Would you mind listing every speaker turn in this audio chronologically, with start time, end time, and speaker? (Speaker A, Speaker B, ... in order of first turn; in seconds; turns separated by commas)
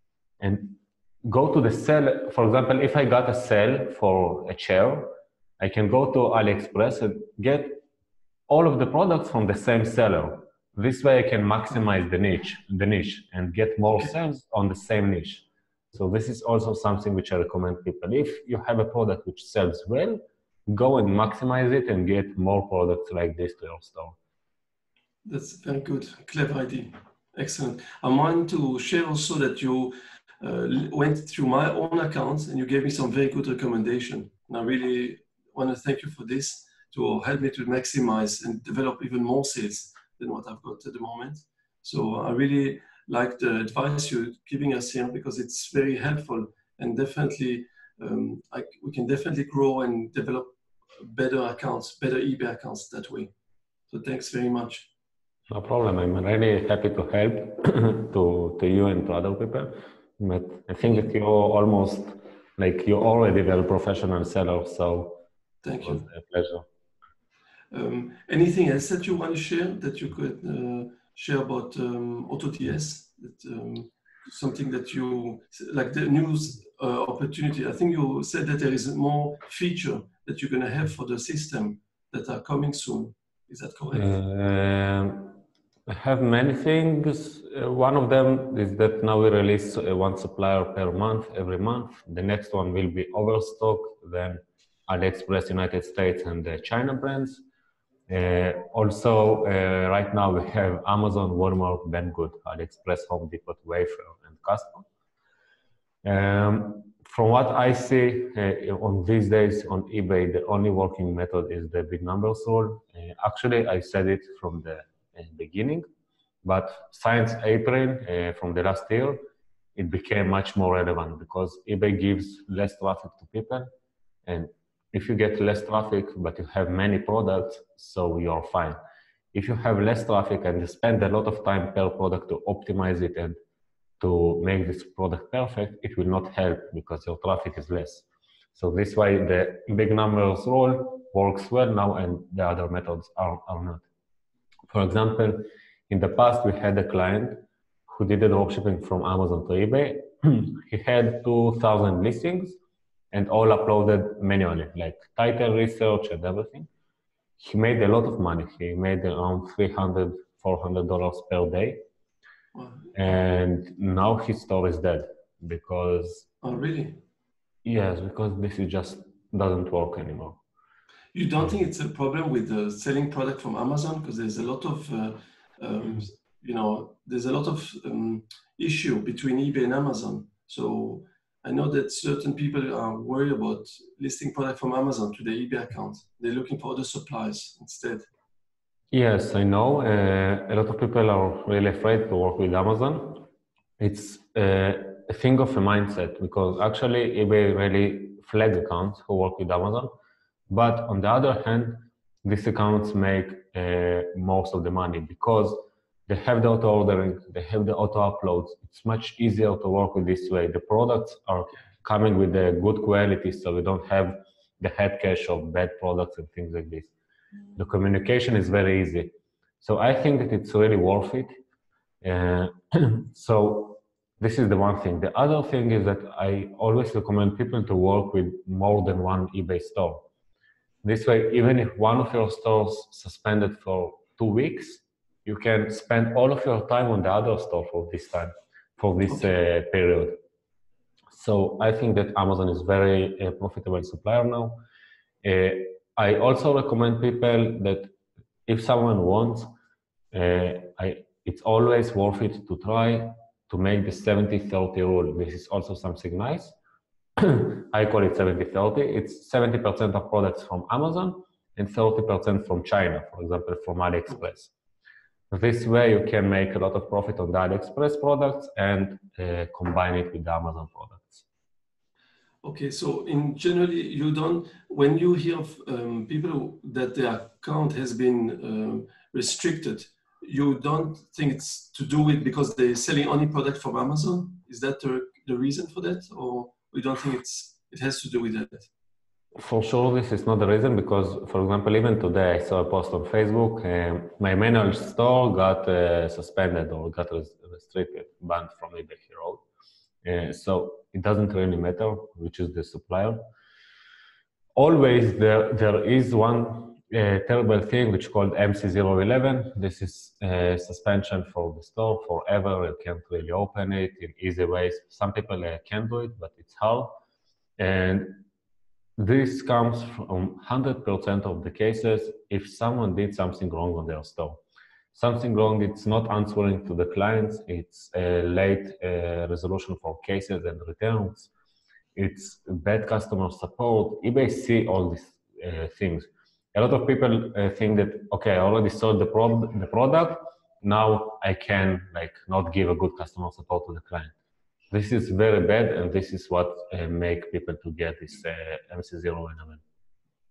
Speaker A: 0.4-7.8, Speaker A: 8.5-24.2, Speaker B: 25.2-53.3, Speaker B: 53.9-54.9, Speaker A: 55.5-65.2, Speaker B: 65.6-66.0, Speaker A: 65.8-66.7, Speaker B: 67.7-84.1, Speaker A: 83.9-97.4, Speaker A: 98.1-104.8, Speaker A: 106.0-115.8, Speaker A: 116.4-119.2, Speaker A: 119.8-123.7, Speaker A: 124.3-128.8, Speaker A: 129.3-133.4, Speaker A: 134.0-143.8, Speaker A: 144.7-152.6, Speaker A: 153.1-156.7, Speaker A: 157.4-161.8, Speaker B: 162.5-163.0, Speaker A: 162.9-166.3, Speaker B: 166.4-167.0, Speaker A: 167.7-170.4, Speaker B: 171.1-188.1, Speaker A: 188.9-193.2, Speaker A: 193.8-199.9, Speaker A: 200.5-216.9, Speaker A: 217.6-221.4, Speaker A: 222.0-230.1, Speaker A: 230.8-240.2, Speaker A: 241.1-244.6, Speaker A: 245.2-247.9, Speaker A: 248.5-249.5, Speaker A: 250.1-256.6, Speaker A: 257.2-264.5, Speaker A: 265.3-271.2, Speaker B: 272.4-288.7, Speaker A: 289.4-299.4, Speaker A: 300.0-303.2, Speaker A: 304.6-317.0, Speaker A: 317.6-318.2, Speaker A: 319.0-324.4, Speaker A: 324.9-331.3, Speaker A: 331.9-344.1, Speaker A: 344.7-349.6